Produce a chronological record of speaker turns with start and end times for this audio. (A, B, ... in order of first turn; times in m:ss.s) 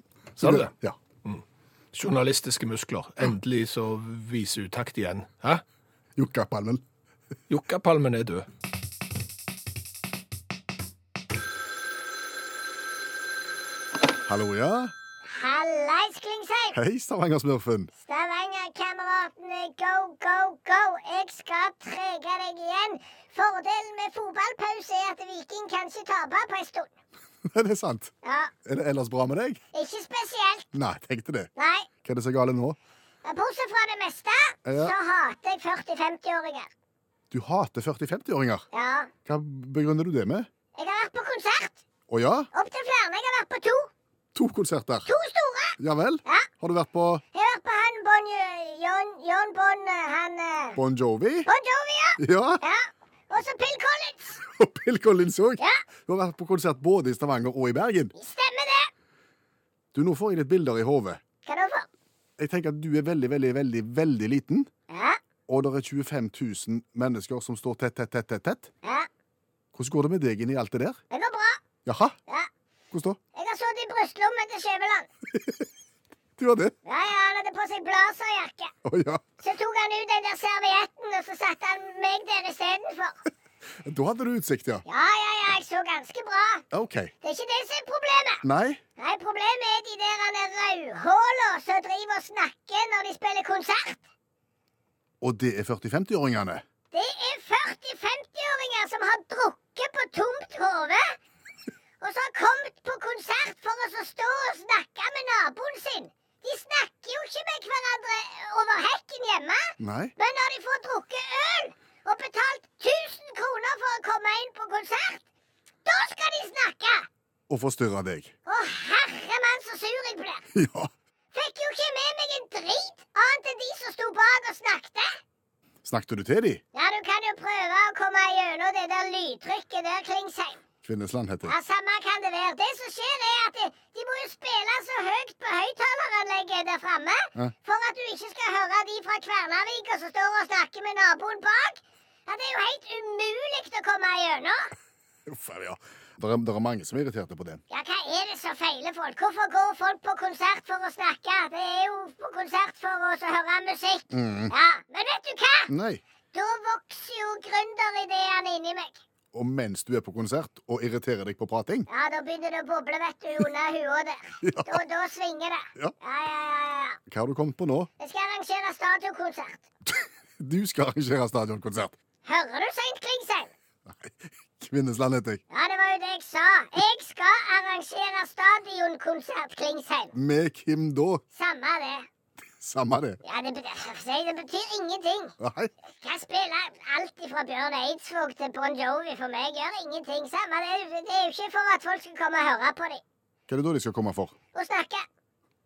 0:00.4-0:00.7 A
0:00.4-0:01.0 B
0:01.2-0:05.6 A
0:06.2-0:06.8 B
0:07.5-0:08.4 A
0:14.2-0:14.9 B
0:15.3-0:16.8 C
0:16.7-0:17.9 B
0:18.0-0:26.9 C
0:27.5-0:28.1 B
0:28.2-0:28.5 C
0:28.6-0:29.6 B
0:29.7-0:30.6 C
0:30.7-0:31.5 B
0:31.6-0:31.9 C
0:32.0-0:32.8 B
0:33.2-0:36.7 C
0:34.6-0:34.9 B
0:37.3-0:38.6 B
0:38.7-0:39.1 C
0:39.2-0:40.5 B
0:40.8-0:41.8 C
0:42.1-0:42.5 B
0:42.5-0:43.9 C
0:44.3-0:45.1 B
0:45.1-0:46.5 C
0:45.8-0:47.2 B
0:47.3-0:50.8 C
0:50.8-0:51.5 B
0:51.5-0:54.4 C
0:52.2-0:52.6 B
0:54.4-0:58.1 B
0:58.2-0:58.9 C
0:59.9-1:01.2 B
1:01.4-1:01.9 C
1:02.4-1:04.7 B
1:04.9-1:05.2 C
1:05.5-1:08.7 B
1:09.7-1:11.0 B
1:11.1-1:11.6 C
1:11.8-1:12.2 B
1:12.9-1:13.2 B
1:13.3-1:15.1 C
1:15.3-1:15.6 B
1:16.4-1:16.7 B
1:16.8-1:18.7 C
1:18.8-1:19.2 B
1:19.4-1:23.1 C
1:23.8-1:24.8 B
1:24.9-1:26.6 C
1:26.7-1:27.1 B
1:27.2-1:28.4 C
1:28.4-1:28.8 B
1:29.0-1:34.0 C
1:35.2-1:36.6 B
1:36.9-1:41.2 C
1:42.0-1:55.2 C
1:49.8-1:50.1 B
1:55.8-1:57.1 C
1:57.5-1:58.3 B
1:58.5-2:00.4 C
2:00.5-2:00.9 B
2:01.3-2:05.2 C
2:05.8-2:06.6 B
2:06.7-2:10.6 C
2:10.8-2:11.6 B
2:11.4-2:24.7 C
2:25.2-2:27.6 B
2:27.7-2:35.7 C
2:34.1-2:34.5 B
2:35.7-2:36.0 B
2:36.3-2:39.0 C
2:39.3-2:41.9 B
2:41.9-2:47.0 C
2:44.4-2:44.8 B
2:47.1-2:47.9 B
2:48.0-2:49.6 C
2:49.9-2:52.0 B
2:52.2-2:53.5 C
2:53.9-2:55.4 B
2:55.5-3:00.1 C
3:00.1-3:01.2 B
3:01.3-3:02.0 C
3:02.6-3:03.2 B
3:03.2-3:05.3 C
3:05.4-3:05.7 B
3:06.0-3:13.0 C
3:13.5-3:14.4 B
3:14.5-3:15.0 C